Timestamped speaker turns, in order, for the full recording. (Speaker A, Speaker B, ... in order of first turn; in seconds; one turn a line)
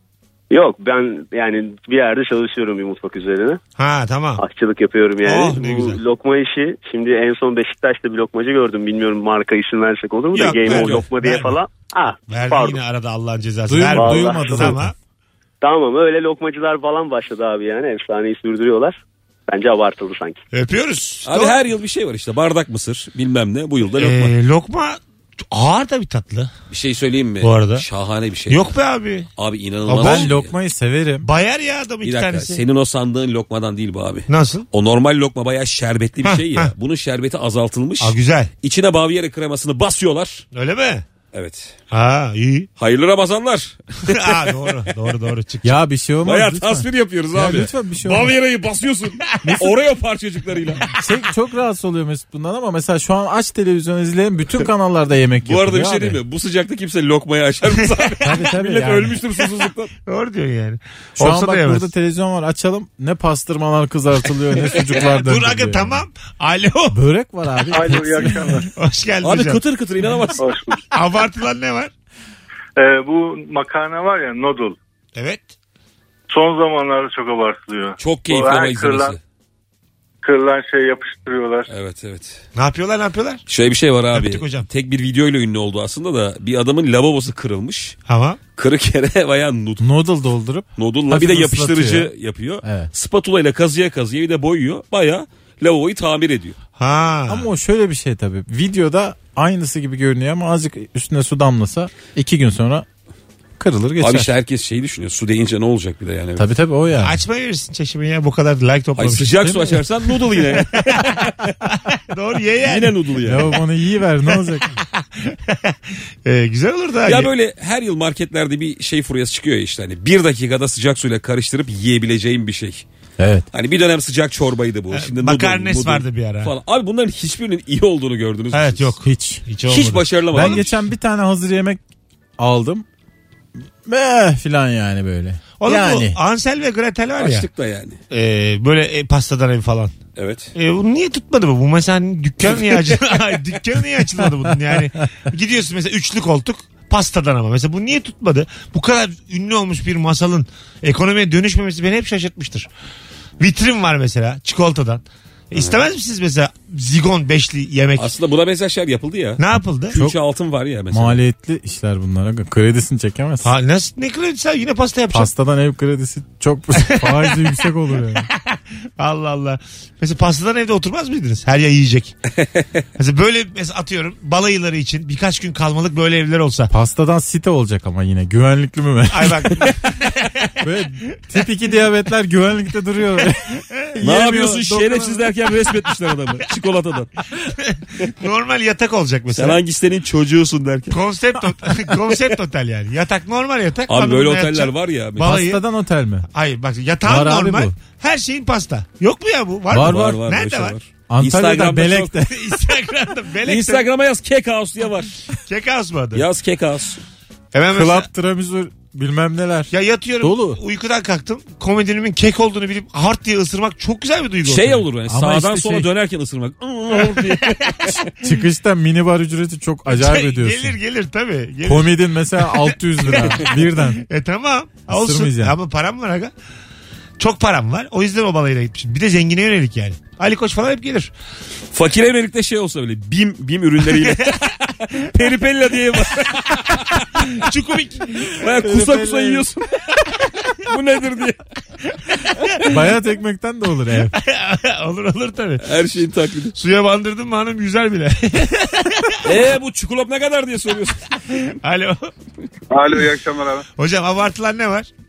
Speaker A: 0.5-3.6
Speaker B: 3.8-4.4
Speaker A: 4.4-12.8
Speaker B: 5.2-6.0
Speaker B: 10.3-11.5
Speaker C: 10.7-11.0
Speaker B: 12.3-14.9
Speaker D: 13.7-14.9
Speaker A: 13.9-14.8
Speaker A: 15.6-19.0
Speaker A: 19.5-20.4
Speaker B: 20.5-21.6
Speaker C: 21.2-24.3
Speaker B: 23.9-25.0
Speaker B: 25.5-26.5
Speaker C: 26.7-28.7
Speaker B: 27.4-27.9
Speaker B: 28.5-29.3
Speaker C: 29.4-30.5
Speaker B: 29.9-30.3
Speaker D: 29.9-31.3
Speaker B: 31.2-32.6
Speaker C: 32.0-40.4
Speaker B: 34.3-34.6
Speaker B: 36.2-36.7
Speaker B: 38.0-38.5
Speaker B: 40.5-41.0
Speaker C: 41.3-41.7
Speaker B: 41.9-42.7
Speaker C: 42.8-44.8
Speaker B: 44.0-45.8
Speaker D: 45.6-48.3
Speaker C: 46.2-50.9
Speaker D: 50.9-56.2
Speaker C: 55.4-59.9
Speaker D: 58.2-59.1
Speaker B: 60.0-61.9
Speaker D: 61.2-66.0
Speaker B: 64.9-67.0
Speaker D: 66.9-68.6
Speaker E: 67.7-68.6
Speaker B: 68.7-69.6
Speaker C: 69.2-70.4
Speaker E: 70.5-70.8
Speaker B: 70.9-71.9
Speaker E: 73.5-74.7
Speaker B: 75.1-75.5
Speaker E: 76.3-77.9
Speaker C: 78.0-79.2
Speaker E: 78.4-79.0
Speaker E: 80.3-81.6
Speaker C: 81.7-82.4
Speaker B: 82.5-83.4
Speaker C: 83.5-88.0
Speaker B: 84.1-84.7
Speaker B: 88.1-88.4
Speaker C: 88.6-89.9
Speaker D: 89.8-92.1
Speaker C: 90.8-96.5
Speaker D: 92.6-92.9
Speaker B: 96.8-97.5
Speaker D: 97.3-102.8
Speaker D: 103.6-104.3
Speaker C: 104.0-106.5
Speaker D: 106.4-107.1
Speaker B: 107.0-109.8
Speaker C: 108.9-111.5
Speaker B: 110.4-111.0
Speaker B: 111.9-113.0
Speaker C: 112.6-113.5
Speaker D: 113.2-114.7
Speaker B: 114.3-117.3
Speaker C: 117.0-122.8
Speaker D: 123.2-123.5
Speaker C: 123.5-128.9
Speaker B: 124.9-126.5
Speaker B: 128.5-130.7
Speaker D: 129.0-129.4
Speaker C: 129.7-130.7
Speaker D: 130.3-131.8
Speaker D: 132.4-132.8
Speaker D: 133.8-136.2
Speaker B: 135.6-137.5
Speaker C: 137.2-138.0
Speaker B: 138.1-139.9
Speaker C: 140.2-140.5
Speaker B: 140.5-152.7
Speaker B: 153.4-158.1
Speaker C: 158.0-161.2
Speaker B: 159.4-159.9
Speaker D: 160.9-163.5
Speaker B: 163.4-165.3
Speaker D: 165.1-168.3
Speaker B: 166.9-167.5
Speaker B: 168.3-172.1
Speaker C: 172.4-172.6
Speaker B: 173.0-176.7
Speaker D: 176.7-179.7
Speaker B: 179.1-180.6
Speaker D: 180.6-185.2
Speaker C: 184.0-187.1
Speaker B: 187.5-189.6
Speaker C: 189.3-191.0
Speaker B: 190.9-195.6
Speaker C: 193.9-195.4
Speaker D: 195.2-196.2
Speaker B: 196.3-200.7
Speaker D: 197.1-197.7
Speaker D: 199.7-200.2
Speaker C: 199.7-202.1
Speaker D: 201.1-202.4
Speaker B: 202.2-203.8
Speaker C: 203.4-205.1
Speaker B: 205.3-206.2
Speaker C: 206.1-207.0
Speaker B: 207.5-208.1
Speaker D: 207.7-209.7
Speaker B: 209.7-214.8
Speaker D: 210.2-210.6
Speaker C: 214.4-218.0
Speaker D: 215.1-215.9
Speaker D: 218.2-220.7
Speaker B: 219.9-226.3
Speaker D: 221.6-224.0
Speaker D: 224.9-225.5
Speaker B: 227.2-231.1
Speaker C: 231.7-237.4
Speaker B: 233.9-234.4
Speaker B: 236.7-238.5
Speaker C: 238.2-239.8
Speaker D: 238.6-239.4
Speaker C: 240.6-241.4
Speaker B: 242.1-242.6
Speaker D: 242.6-244.2
Speaker B: 244.1-245.7
Speaker C: 245.6-246.6
Speaker B: 246.5-249.4
Speaker C: 249.2-251.2
Speaker B: 251.3-252.1
Speaker E: 252.7-253.6
Speaker B: 253.8-254.9